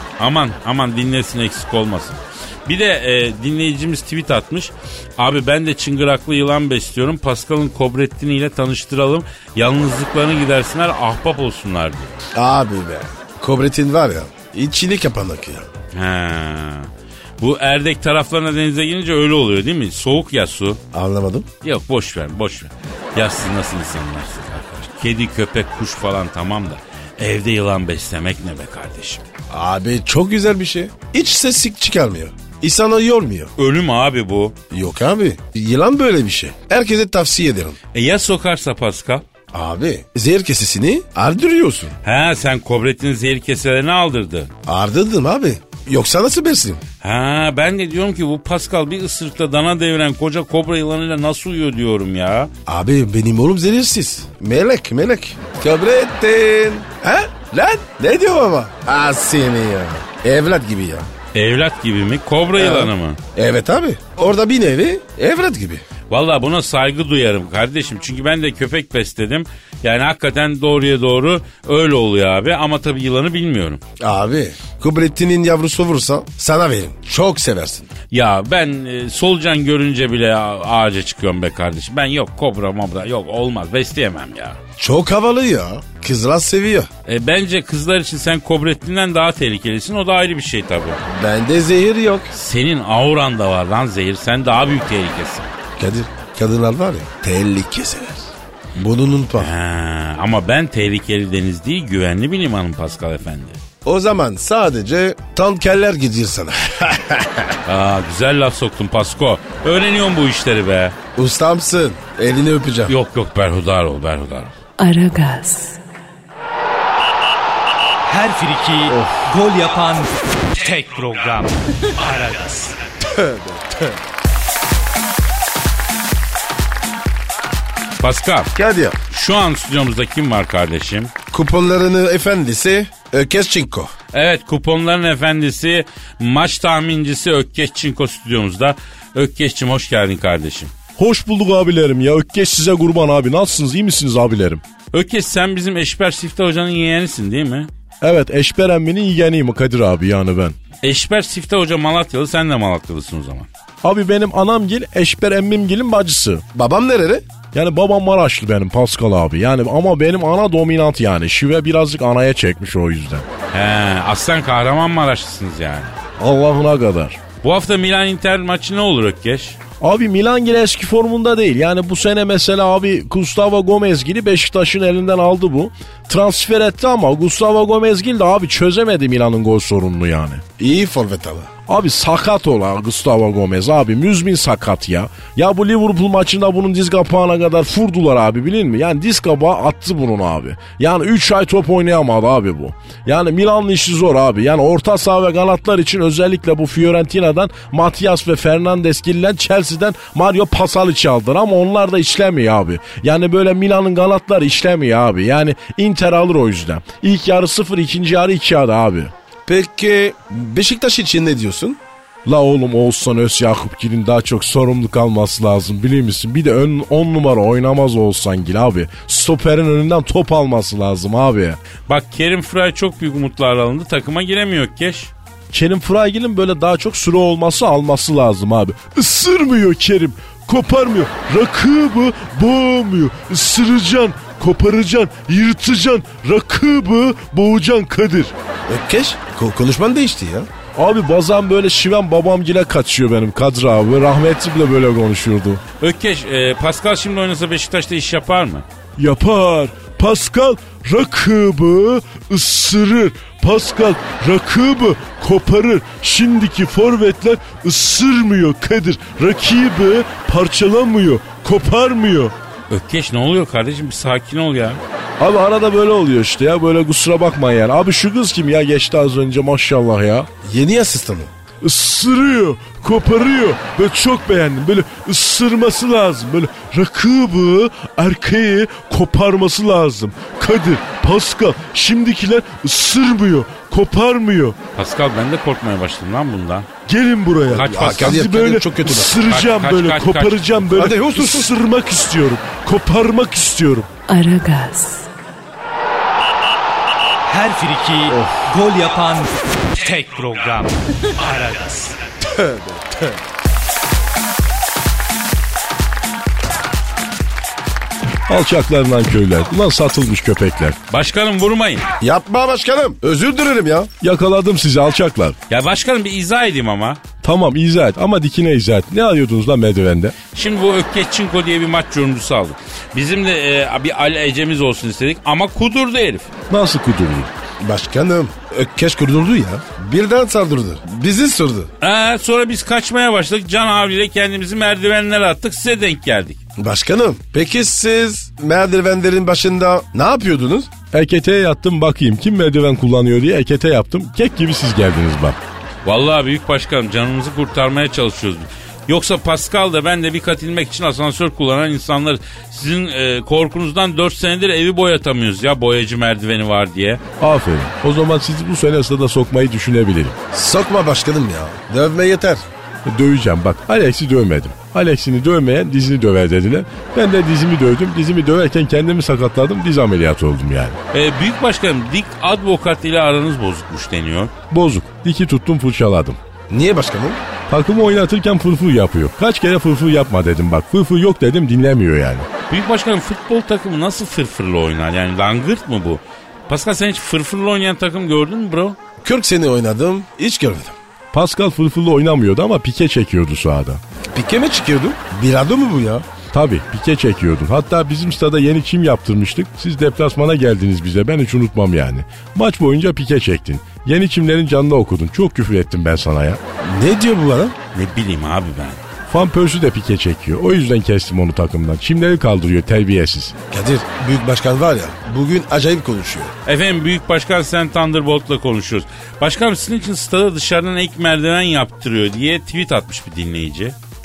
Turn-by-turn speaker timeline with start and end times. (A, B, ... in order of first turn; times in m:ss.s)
0:00.2-0:12.2 A
0:12.4-0:15.7 B
0:15.9-0:20.8 A
0:20.9-0:21.5 B
0:21.6-0:29.2 A
0:29.5-0:33.5 B
0:33.6-0:34.6 A
0:34.7-0:37.8 B
0:37.9-0:39.2 A
0:39.5-0:42.0 B
0:42.0-0:44.5 A
0:44.7-0:46.8 B
0:47.0-0:52.5 A
0:52.7-1:01.1 B
1:01.3-1:03.2 A
1:02.6-1:05.8 B
1:06.1-1:13.8 A
1:14.0-1:17.9 B
1:18.1-1:24.6 A
1:24.8-1:26.9 B
1:27.1-1:31.0 A
1:31.1-1:32.3 B
1:32.3-1:35.5 A
1:35.8-1:39.5 B
1:39.4-1:43.6 A
1:43.8-1:47.6 B
1:47.7-1:51.0 A
1:51.2-1:52.9 B
1:52.9-1:54.5 A
1:54.8-1:55.8 C
1:58.1-2:02.8 D
1:58.9-1:59.2 B
2:03.1-2:03.8 B
2:08.0-2:08.5 A
2:08.6-2:09.0 B
2:09.1-2:11.1 A
2:11.3-2:13.9 B
2:14.1-2:20.7 A
2:21.0-2:24.6 E
2:24.9-2:27.7 A
2:28.0-2:30.6 E
2:30.8-2:33.5 A
2:33.8-2:36.4 E
2:36.5-2:37.2 B
2:37.5-2:43.3 E
2:43.5-2:45.9 A
2:46.2-2:47.2 E
2:47.4-2:49.6 A
2:49.8-3:00.4 E
3:00.6-3:01.5 B
3:01.7-3:29.1 E
3:29.5-3:31.8 B
3:32.2-3:41.6 E
3:41.9-3:45.1 A
3:45.5-3:58.3 E
3:58.7-4:00.5 B
4:00.7-4:05.6 E
4:05.8-4:08.6 A
4:09.0-4:22.3 E
4:22.7-4:24.8 A
4:25.2-4:30.3 E
4:30.4-4:31.3 B
4:31.6-4:44.6 E
4:44.8-4:46.7 A
4:46.9-4:53.9 E
4:47.5-4:48.2 A
4:47.6-4:49.2 B
4:49.2-4:50.8 A
4:50.8-4:51.5 B
4:54.1-4:55.1 C
4:57.3-5:02.0 D
4:58.1-4:58.4 B
5:02.3-5:02.8 B
5:08.3-5:10.8 E
5:10.9-5:11.8 A
5:12.0-5:13.9 B
5:14.0-5:15.4 E
5:15.5-5:17.0 A
5:17.2-5:20.2 E
5:20.3-5:26.3 A
5:26.5-5:27.3 E
5:27.6-5:31.7 B
5:31.8-5:36.4 A
5:36.6-5:40.7 B
5:40.9-5:45.4 E
5:45.8-5:57.0 A
5:57.2-6:00.2 E
6:00.3-6:02.4 B
6:02.9-6:10.8 E
6:10.9-6:14.3 A
6:14.5-6:16.2 E
6:16.5-6:17.2 B
6:17.5-6:22.3 E
6:22.5-6:28.8 A
6:29.0-6:30.7 B
6:31.1-6:33.8 E
6:34.1-6:36.0 B
6:36.3-6:46.4 E
6:46.6-6:47.6 B
6:47.7-6:48.8 A
6:49.1-6:53.4 E
6:53.5-6:56.3 B
6:56.5-7:03.8 A